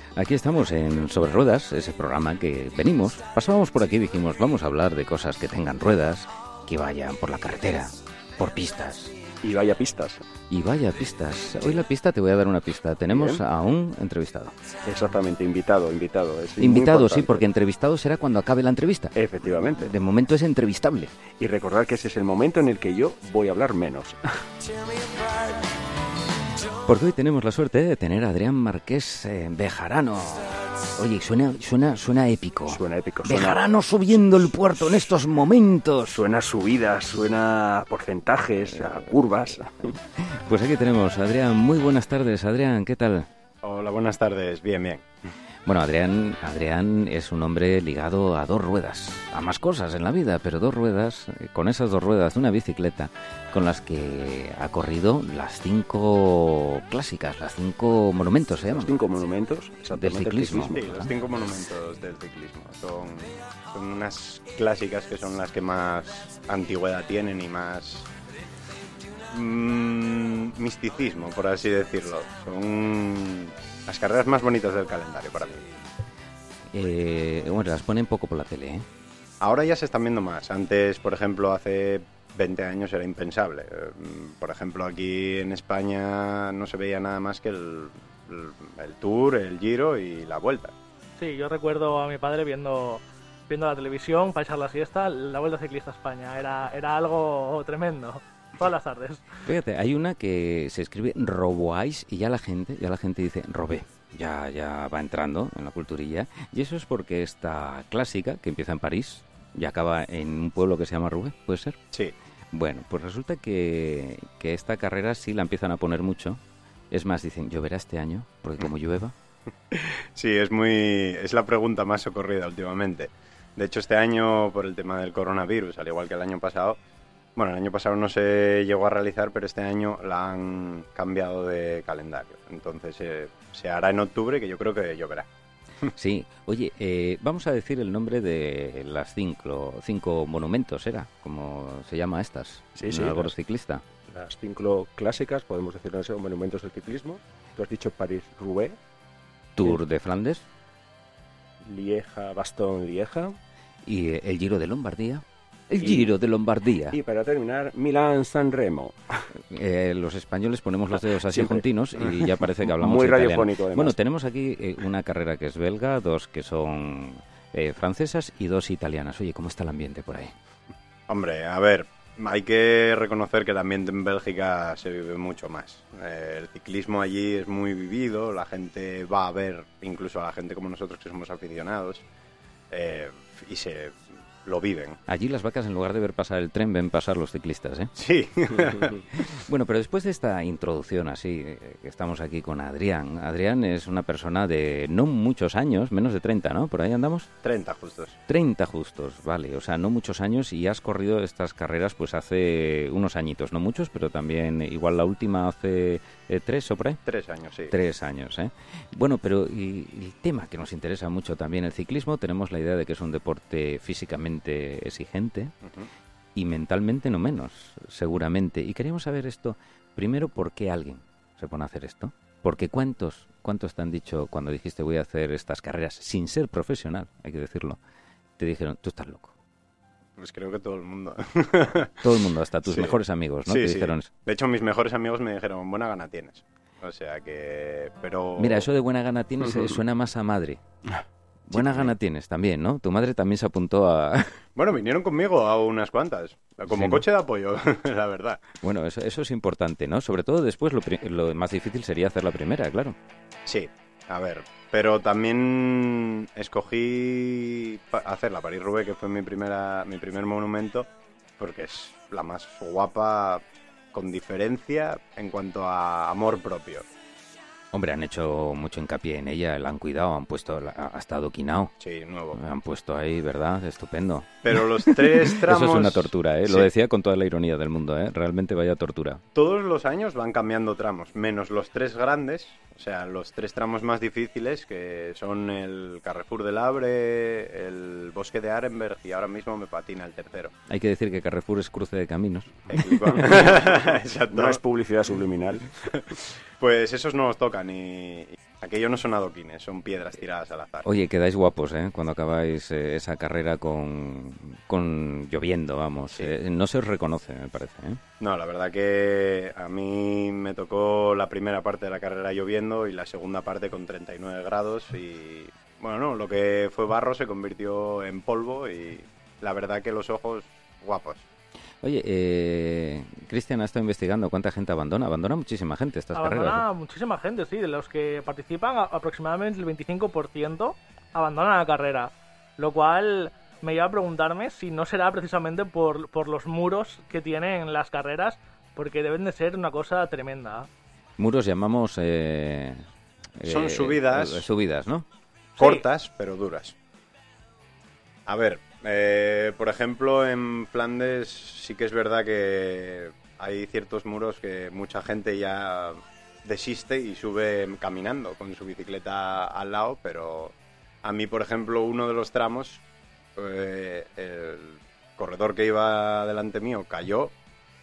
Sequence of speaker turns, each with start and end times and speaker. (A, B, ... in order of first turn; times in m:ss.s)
0:00.2-0:09.1 A
0:09.4-0:10.2 B
0:10.5-0:14.6 A
0:13.1-0:13.4 B
0:14.8-0:17.5 B
0:16.6-0:19.1 A
0:19.1-0:19.9 B
0:19.8-0:21.1 A
0:21.4-0:24.2 B
0:26.8-0:36.2 A
0:32.7-0:33.6 B
0:36.1-0:40.0 B
0:40.2-0:43.3 A
0:43.6-0:45.0 C
0:45.6-0:59.0 A
0:58.7-1:01.1 B
0:59.9-1:01.1 A
1:00.6-1:08.1 C
1:09.3-1:15.7 C
1:16.7-1:18.9 A
1:19.4-1:30.7 C
1:31.2-1:39.3 D
1:39.4-1:51.8 A
1:52.5-1:56.4 A
1:56.9-1:59.1 A
1:59.7-2:06.8 C
2:07.4-2:15.3 C
2:15.9-2:23.8 A
2:22.7-2:23.3 B
2:24.1-2:28.8 B
2:29.6-2:30.4 A
2:31.6-2:33.4 B
2:33.8-2:37.0 A
2:35.8-2:36.1 B
2:36.9-2:39.0 B
2:39.5-2:50.3 A
2:41.1-2:44.0 B
2:51.1-3:02.0 C
3:02.7-3:05.0 C
3:05.1-3:07.9 A
3:08.0-3:09.0 C
3:09.2-3:17.3 A
3:17.4-3:18.2 C
3:18.3-3:27.0 A
3:27.0-3:27.7 C
3:27.7-3:35.5 A
3:36.3-3:47.8 A
3:48.4-3:49.3 A
3:50.2-3:52.0 C
3:52.0-3:54.1 A
3:52.6-3:58.7 C
3:58.4-4:00.6 A
3:59.4-3:59.7 B
4:01.5-4:04.4 A
4:01.6-4:01.9 C
4:04.6-4:08.4 C
4:06.7-4:07.0 A
4:08.6-4:13.0 A
4:13.4-4:26.8 C
4:27.7-4:31.7 A
4:31.8-4:32.4 C
4:32.3-4:39.2 A
4:34.4-4:36.7 C
4:39.3-4:50.5 C
4:50.7-4:52.5 A
4:52.7-4:54.6 C
4:52.9-4:55.7 B
4:53.1-4:53.4 A
4:55.9-5:00.8 C
5:00.8-5:08.0 A
5:08.2-5:21.2 C
5:21.8-5:26.6 A
5:26.1-5:40.7 D
5:41.2-5:42.8 A
5:43.4-5:45.0 A
5:43.4-5:44.4 C
5:45.6-5:45.8 D
5:45.6-5:46.8 C
5:48.3-6:02.8 C
6:03.4-6:07.3 C